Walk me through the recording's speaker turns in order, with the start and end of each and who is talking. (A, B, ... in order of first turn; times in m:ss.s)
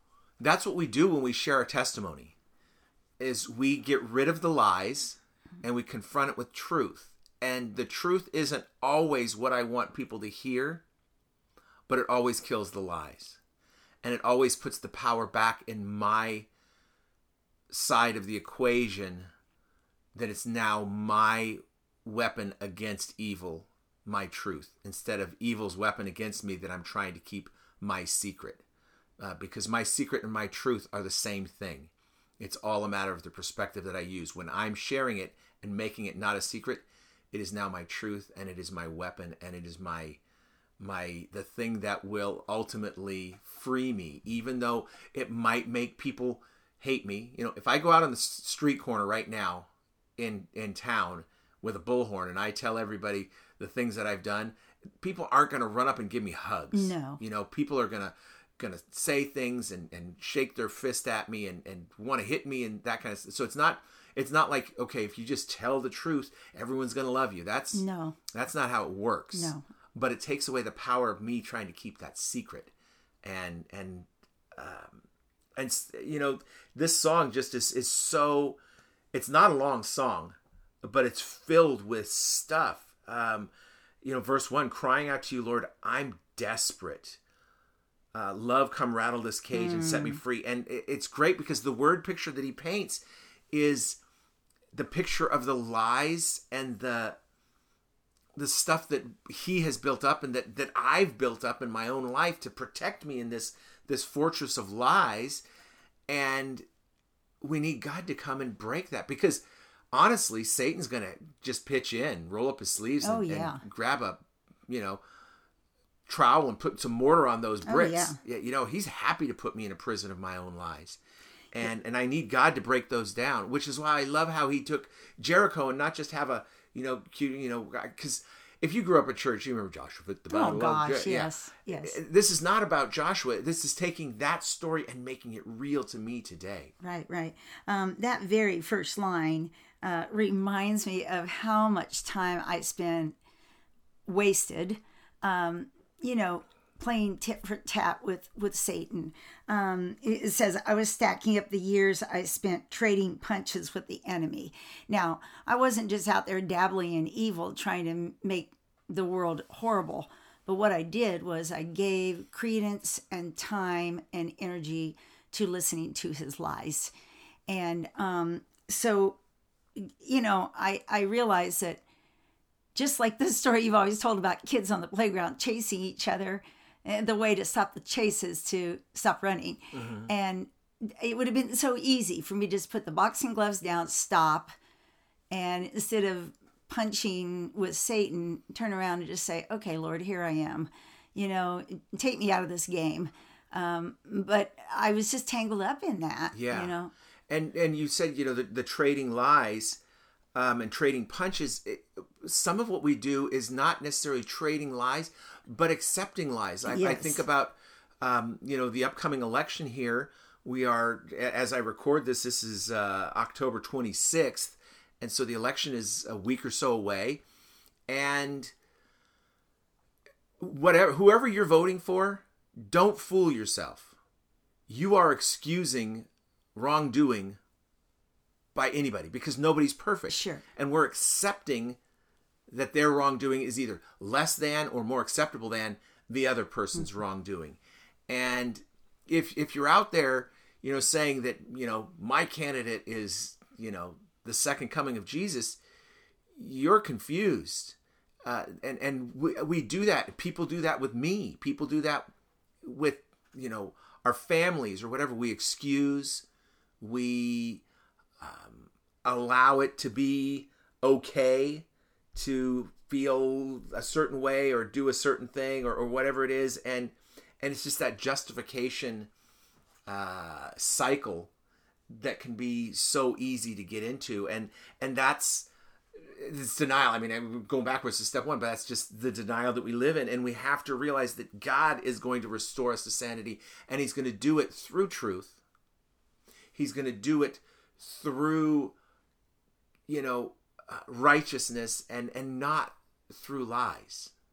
0:00.4-0:02.3 A
0:03.2-0:10.8 A
0:11.9-0:13.4 A
0:14.0-0:16.5 A
0:17.7-0:19.3 A
0:20.1-0:28.6 A
0:29.2-0:40.2 A
0:40.8-1:12.7 A
0:56.7-0:57.2 B
1:07.7-1:08.2 B
1:09.3-1:09.6 B
1:13.2-1:15.0 A
1:15.6-1:18.6 A
1:19.1-1:23.5 A
1:24.0-1:27.2 A
1:28.1-1:34.0 A
1:29.5-1:30.2 B
1:34.7-1:37.2 A
1:38.3-1:45.4 A
1:46.1-1:46.6 A
1:47.4-1:55.0 A
1:53.0-1:53.6 B
1:56.0-2:01.0 A
1:57.6-1:58.2 B
2:01.5-2:16.7 A
2:10.3-2:12.0 B
2:16.8-2:23.1 B
2:24.0-2:46.9 B
2:47.5-2:49.2 B
2:49.8-2:51.8 B
2:52.7-3:04.5 B
2:59.7-3:00.1 A
3:05.3-3:16.9 B
3:16.3-3:16.7 A
3:17.3-3:19.8 A
3:20.3-3:37.2 A
3:26.6-3:27.2 B
3:37.9-3:38.5 A
3:40.4-3:43.9 A
3:44.7-3:47.4 A
3:48.5-3:51.8 A
3:50.1-3:50.4 B
3:52.5-4:05.6 A
4:06.3-4:12.1 A
4:12.6-4:16.2 A
4:16.8-4:17.6 A
4:18.2-4:29.1 A
4:29.9-4:31.3 A
4:31.9-4:45.4 A
4:46.5-4:48.7 A
4:49.9-4:54.1 A